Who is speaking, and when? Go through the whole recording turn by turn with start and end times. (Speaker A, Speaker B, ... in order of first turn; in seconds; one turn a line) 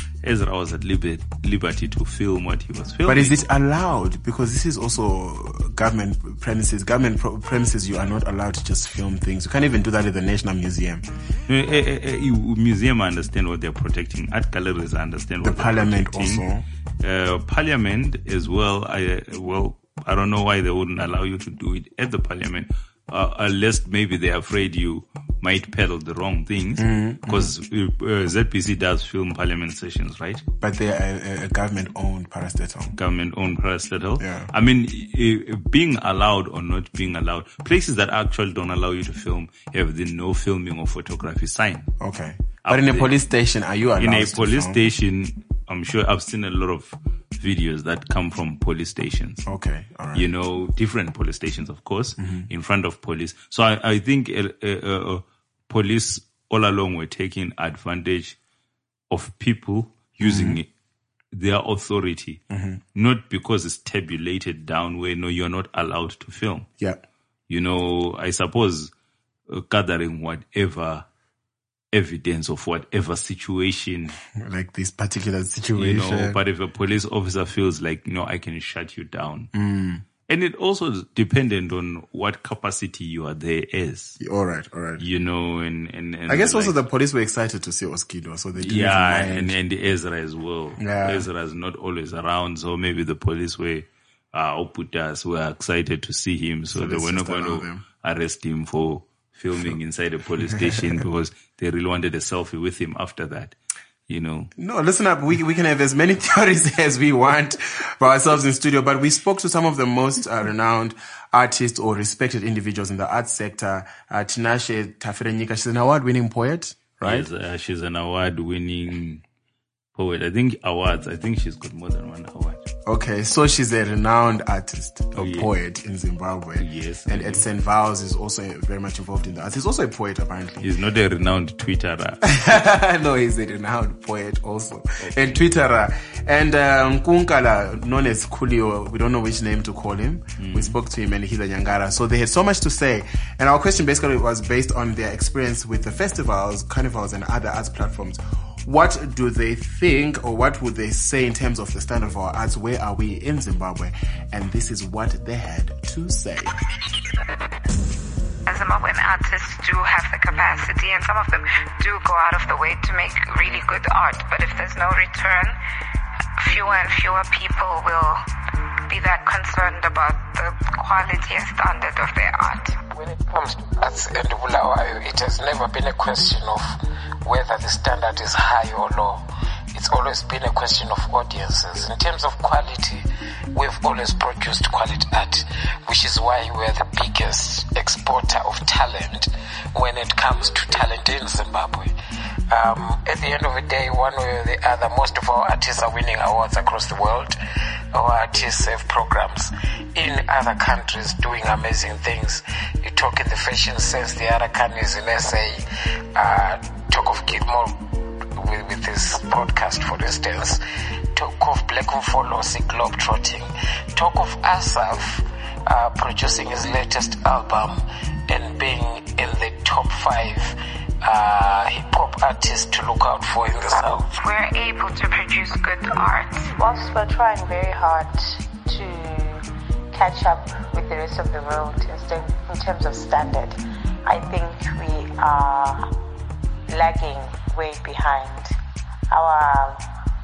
Speaker A: 0.2-3.4
Speaker B: 3.0-11.0
Speaker A: 11.5-16.4
Speaker B: 15.4-16.6
Speaker A: 17.0-30.4
Speaker B: 26.8-27.5
Speaker B: 30.6-33.0
Speaker A: 33.0-41.9
Speaker B: 34.2-34.5
Speaker B: 42.0-44.8
Speaker A: 42.6-43.1
Speaker A: 44.0-49.4
Speaker B: 49.5-50.3
Speaker A: 50.1-58.4
Speaker A: 59.1-60.7
Speaker B: 60.2-60.6
Speaker A: 61.3-62.4
Speaker B: 62.5-62.8
Speaker A: 62.9-66.7
Speaker A: 67.5-68.9
Speaker A: 69.5-71.0
Speaker A: 71.9-74.2
Speaker B: 74.3-76.4
Speaker A: 75.8-79.5
Speaker B: 79.5-80.0
Speaker A: 80.3-84.2
Speaker B: 84.2-85.0
Speaker A: 85.0-86.8
Speaker B: 86.3-89.5
Speaker A: 88.6-103.5
Speaker B: 90.8-91.3
Speaker B: 96.7-97.8
Speaker B: 100.5-100.8
Speaker A: 104.1-104.5
Speaker B: 104.6-117.3
Speaker A: 117.0-119.2
Speaker A: 119.9-122.7
Speaker B: 122.9-130.7
Speaker A: 125.2-125.5
Speaker A: 126.6-127.4
Speaker A: 130.6-132.5
Speaker B: 132.2-156.6
Speaker A: 135.0-135.4
Speaker A: 140.4-140.8
Speaker C: 158.4-165.6
Speaker C: 166.4-168.2
Speaker C: 168.9-172.8
Speaker D: 172.9-191.9
Speaker D: 192.5-197.4
Speaker D: 197.9-205.6
Speaker D: 206.1-210.6
Speaker D: 211.1-224.1
Speaker C: 224.1-226.6
Speaker E: 226.6-228.0
Speaker E: 228.7-229.1
Speaker C: 229.0-229.4
Speaker E: 230.0-233.5
Speaker C: 230.0-230.5
Speaker C: 231.0-231.6
Speaker C: 232.8-233.3
Speaker E: 234.1-235.8
Speaker E: 236.7-238.2
Speaker E: 239.1-239.7